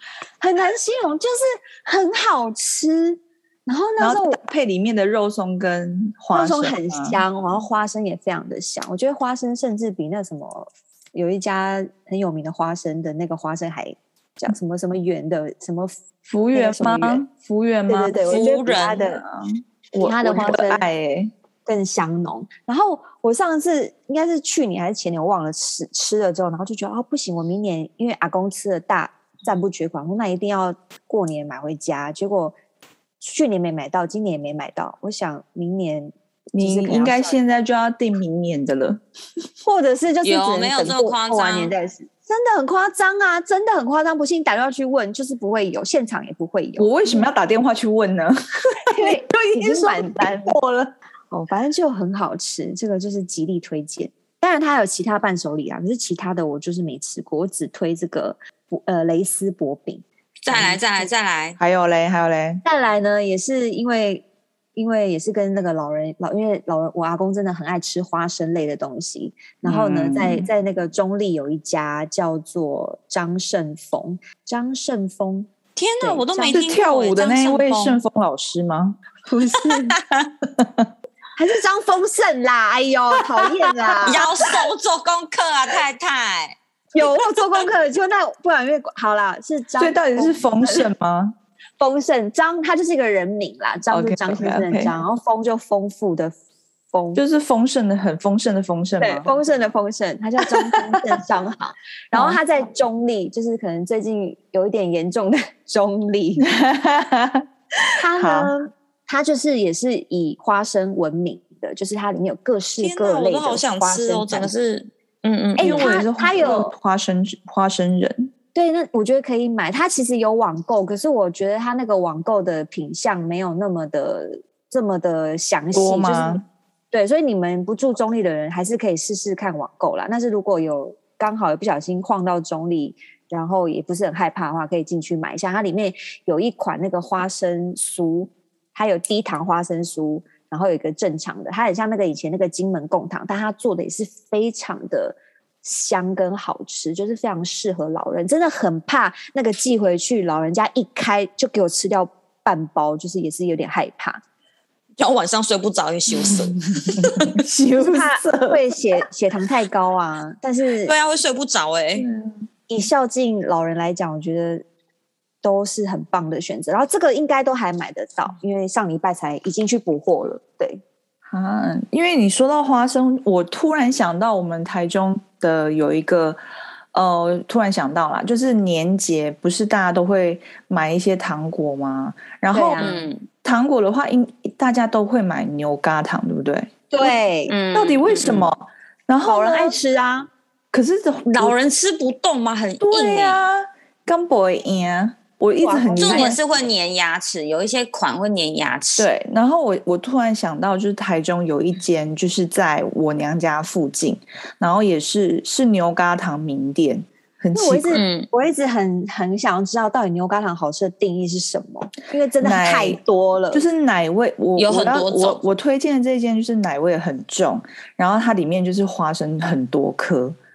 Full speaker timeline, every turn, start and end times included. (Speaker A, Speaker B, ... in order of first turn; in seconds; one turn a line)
Speaker A: 0.4-4.4
Speaker B: 4.0-7.2
Speaker A: 6.3-15.9
Speaker B: 16.3-18.2
Speaker A: 16.5-17.2
Speaker A: 17.9-19.2
Speaker C: 18.2-19.2
Speaker B: 19.9-21.3
Speaker A: 20.0-20.8
Speaker A: 21.6-32.5
Speaker A: 33.2-37.4
Speaker B: 36.5-39.0
Speaker A: 39.6-47.3
Speaker C: 40.2-41.7
Speaker B: 46.8-50.9
Speaker A: 48.9-50.6
Speaker A: 51.3-61.1
Speaker C: 60.4-61.6
Speaker B: 61.6-62.6
Speaker A: 62.6-64.2
Speaker A: 64.8-76.6
Speaker B: 69.6-70.5
Speaker C: 75.8-78.0
Speaker B: 76.5-79.0
Speaker A: 79.2-80.0
Speaker C: 79.6-80.3
Speaker B: 80.4-80.9
Speaker A: 81.3-84.2
Speaker B: 83.7-84.6
Speaker C: 84.0-86.5
Speaker A: 86.9-90.9
Speaker B: 89.8-91.3
Speaker A: 91.8-96.4
Speaker B: 93.9-94.9
Speaker A: 96.9-97.2
Speaker B: 97.1-99.3
Speaker A: 99.0-106.5
Speaker B: 102.1-102.4
Speaker B: 106.4-107.4
Speaker A: 108.0-114.5
Speaker B: 108.2-108.5
Speaker C: 112.8-115.9
Speaker B: 115.6-118.3
Speaker A: 115.6-116.7
Speaker A: 118.5-154.2
Speaker B: 125.7-126.4
Speaker C: 155.0-157.4
Speaker B: 156.1-158.6
Speaker A: 157.8-160.9
Speaker C: 160.8-162.1
Speaker B: 161.9-162.4
Speaker A: 162.7-164.6
Speaker A: 165.4-170.8
Speaker B: 171.3-176.4
Speaker B: 176.9-186.7
Speaker A: 182.5-183.0
Speaker C: 182.8-183.2
Speaker A: 186.9-187.5
Speaker C: 187.5-188.5
Speaker B: 187.7-189.8
Speaker A: 189.2-190.3
Speaker B: 190.7-191.6
Speaker C: 191.3-193.4
Speaker B: 192.8-196.4
Speaker A: 195.6-196.7
Speaker C: 196.0-199.1
Speaker B: 199.0-208.0
Speaker A: 207.5-213.6
Speaker C: 207.9-208.3
Speaker B: 212.4-213.0
Speaker B: 213.5-220.4
Speaker C: 214.6-215.4